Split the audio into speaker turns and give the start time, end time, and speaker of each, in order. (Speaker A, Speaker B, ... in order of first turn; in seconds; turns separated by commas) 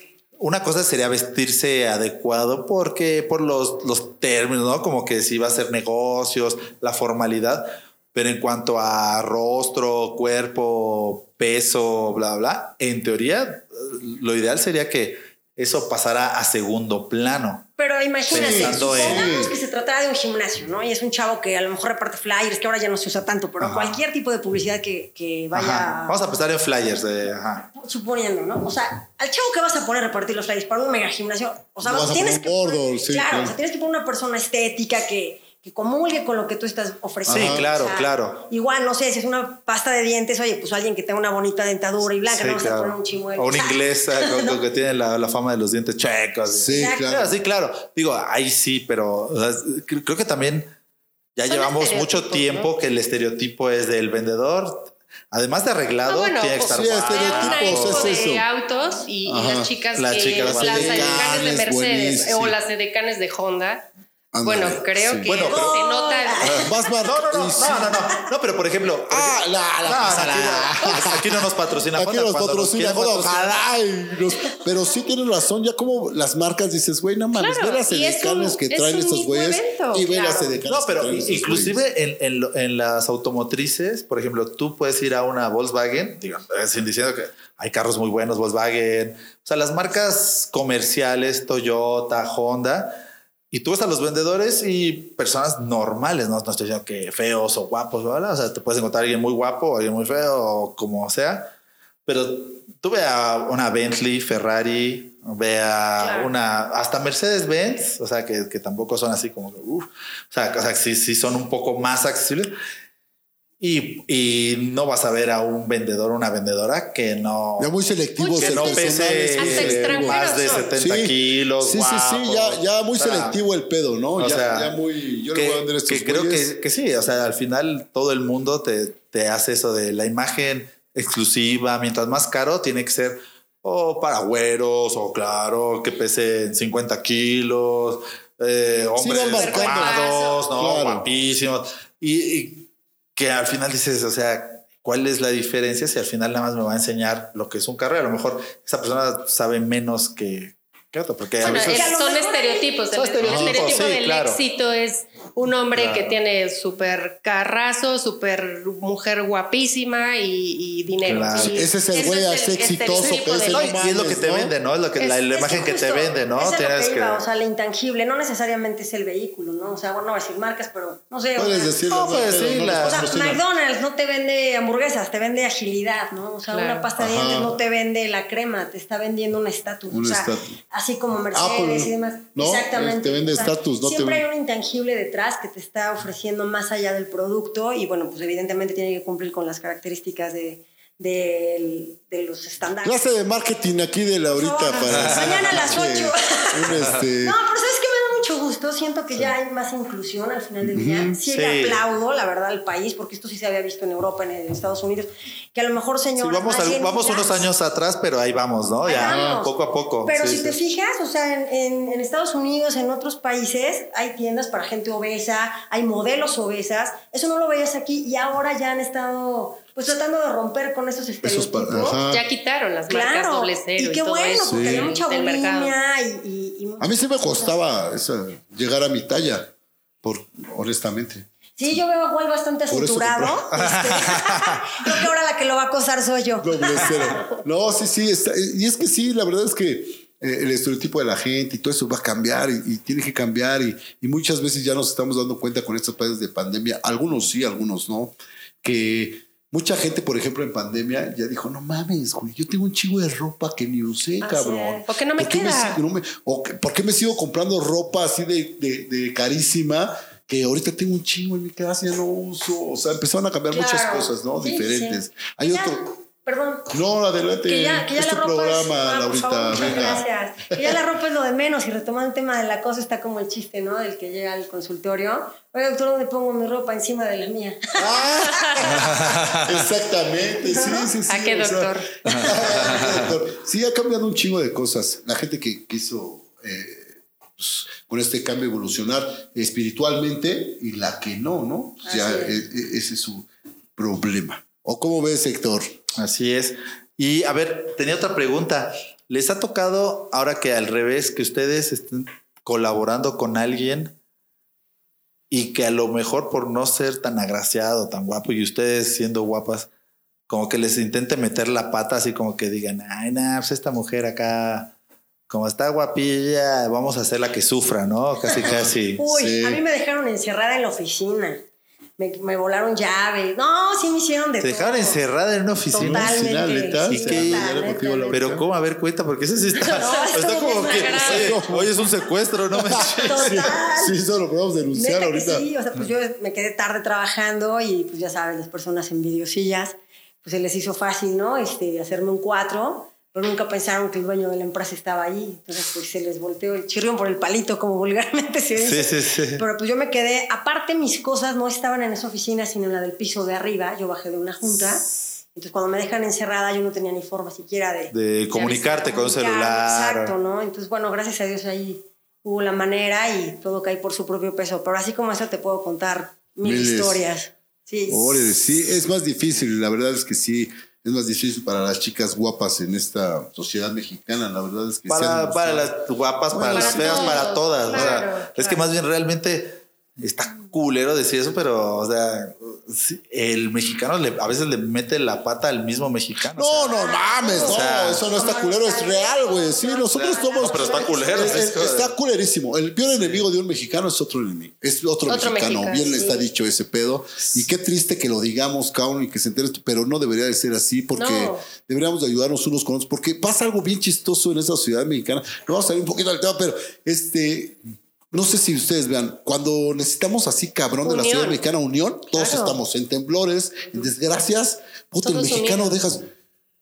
Speaker A: 0.4-17.7, Speaker B: 17.8-26.2, Speaker A: 18.3-19.3, Speaker C: 18.3-19.5, Speaker A: 23.6-24.0, Speaker A: 25.5-27.7, Speaker B: 27.7-44.6, Speaker C: 31.8-33.6, Speaker C: 37.3-37.7, Speaker A: 37.3-38.4, Speaker A: 42.3-50.7, Speaker C: 46.5-47.4, Speaker B: 46.7-47.1, Speaker A: 51.4-58.2, Speaker D: 51.5-52.7, Speaker D: 56.1-63.9, Speaker C: 56.6-58.5, Speaker C: 59.2-59.7, Speaker A: 59.9-61.5, Speaker C: 60.4-62.6, Speaker C: 64.3-65.3, Speaker D: 64.4-66.4, Speaker A: 65.3-65.8, Speaker B: 65.4-66.9, Speaker A: 66.4-73.7, Speaker C: 66.5-68.1, Speaker B: 67.6-68.2, Speaker C: 69.1-81.8, Speaker D: 70.8-71.1, Speaker D: 77.4-80.6, Speaker A: 80.7-101.5, Speaker A: 102.1-112.5, Speaker D: 106.0-106.3, Speaker A: 113.6-117.7, Speaker C: 117.6-120.2, Speaker D: 118.2-120.7, Speaker A: 118.4-123.4, Speaker C: 120.8-126.5, Speaker A: 124.2-124.8, Speaker A: 125.3-152.0, Speaker C: 139.0-141.1, Speaker D: 139.3-140.4, Speaker B: 151.4-152.7, Speaker D: 151.4-163.8, Speaker A: 152.9-154.4, Speaker C: 153.2-153.8, Speaker A: 155.7-156.2, Speaker A: 161.1-161.7, Speaker C: 161.4-164.5, Speaker A: 162.9-167.2, Speaker D: 165.0-165.3, Speaker B: 165.3-171.8, Speaker C: 171.4-173.4, Speaker A: 171.9-173.1, Speaker B: 172.8-193.1, Speaker D: 176.5-176.9, Speaker C: 177.0-177.6, Speaker C: 179.9-180.6, Speaker C: 181.3-184.2, Speaker C: 192.8-197.4, Speaker B: 194.3-207.5, Speaker A: 194.9-195.8, Speaker C: 200.6-201.2, Speaker A: 201.3-201.8, Speaker A: 206.2-210.6, Speaker B: 208.8-209.5, Speaker C: 209.0-209.4, Speaker B: 210.1-222.0, Speaker C: 221.2-222.2, Speaker D: 222.0-225.8, Speaker B: 222.9-227.6, Speaker C: 224.4-224.9, Speaker C: 226.8-231.8, Speaker B: 231.6-237.1, Speaker C: 232.7-233.5, Speaker A: 233.5-234.6, Speaker C: 236.4-265.8, Speaker D: 254.2-255.8, Speaker B: 263.5-266.7, Speaker C: 266.7-270.1, Speaker B: 267.4-279.0, Speaker C: 277.8-295.7, Speaker A: 279.0-279.6, Speaker B: 280.6-280.8, Speaker D: 281.1-282.3, Speaker A: 282.1-283.1, Speaker B: 291.9-292.4, Speaker A: 296.0-303.9, Speaker A: 305.3-309.7, Speaker A: 310.3-314.7, Speaker A: 315.3-319.0, Speaker C: 318.4-319.6, Speaker B: 319.0-321.4, Speaker B: 322.0-325.0, Speaker A: 324.4-326.2, Speaker B: 325.7-328.2, Speaker C: 325.7-328.4, Speaker A: 326.9-327.5, Speaker A: 328.1-333.4, Speaker B: 329.6-331.4, Speaker D: 330.4-331.3, Speaker C: 331.0-331.9, Speaker C: 332.5-335.5, Speaker B: 333.0-334.0, Speaker B: 334.7-368.3, Speaker A: 348.6-349.4, Speaker A: 357.9-360.1, Speaker D: 358.3-358.9, Speaker C: 366.4-367.0, Speaker C: 367.9-375.7, Speaker A: 374.9-386.8, Speaker C: 376.3-378.0, Speaker D: 376.5-378.6, Speaker C: 386.4-407.6, Speaker B: 386.8-391.5, Speaker A: 387.4-388.1, Speaker A: 389.9-391.9, Speaker A: 393.0-393.2, Speaker D: 395.1-395.9, Speaker B: 395.9-396.3, Speaker D: 400.9-401.4, Speaker C: 408.1-416.1, Speaker D: 410.8-411.4, Speaker D: 412.1-412.6, Speaker D: 415.0-415.7